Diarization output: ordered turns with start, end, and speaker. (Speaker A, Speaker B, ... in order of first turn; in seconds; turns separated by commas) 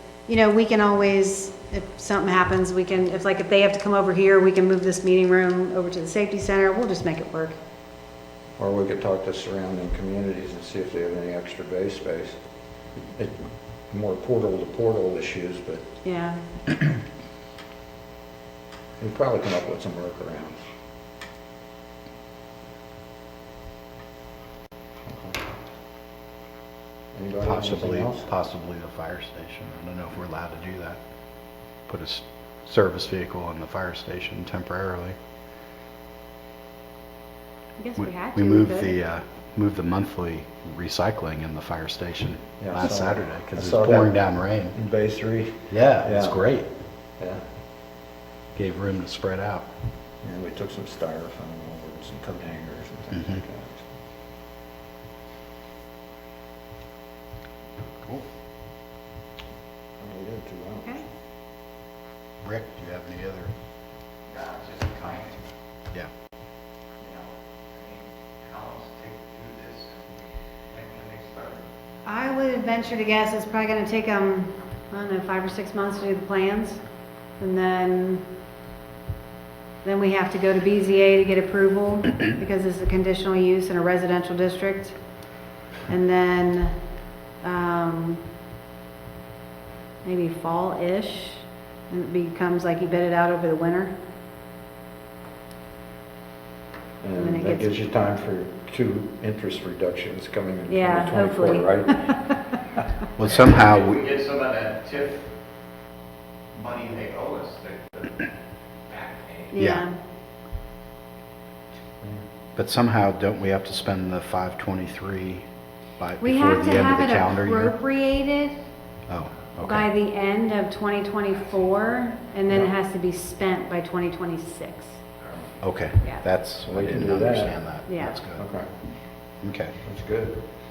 Speaker A: 0.3-7.5, Speaker B: 8.6-12.4, Speaker B: 13.2-15.8, Speaker A: 16.0-16.4, Speaker B: 19.0-20.6, Speaker B: 25.1-25.4, Speaker B: 27.1-28.3, Speaker C: 27.4-31.0, Speaker C: 31.9-35.1, Speaker A: 37.8-38.9, Speaker C: 38.0-44.7, Speaker B: 42.6-44.2, Speaker B: 44.7-46.4, Speaker C: 45.7-46.7, Speaker C: 48.5-49.7, Speaker B: 50.2-53.8, Speaker B: 60.0-61.0, Speaker C: 62.4-63.5, Speaker D: 64.3-65.4, Speaker D: 67.9-70.0, Speaker D: 70.8-71.5, Speaker A: 72.0-76.8, Speaker A: 77.4-78.2, Speaker A: 79.8-85.0, Speaker A: 85.9-86.8, Speaker A: 87.4-88.2, Speaker A: 90.0-94.0, Speaker B: 97.0-102.3, Speaker A: 97.2-97.8, Speaker A: 100.7-102.5, Speaker C: 103.2-104.0, Speaker D: 103.4-105.3, Speaker D: 106.5-108.1, Speaker D: 108.9-109.5, Speaker A: 109.5-110.0, Speaker C: 109.6-109.8, Speaker C: 112.5-115.4, Speaker C: 116.0-117.7, Speaker A: 116.2-118.6, Speaker C: 119.1-119.9, Speaker A: 119.6-124.9, Speaker C: 125.6-128.4, Speaker B: 126.7-127.5, Speaker A: 127.9-128.2, Speaker B: 128.3-128.7, Speaker C: 129.4-129.7, Speaker B: 129.8-130.4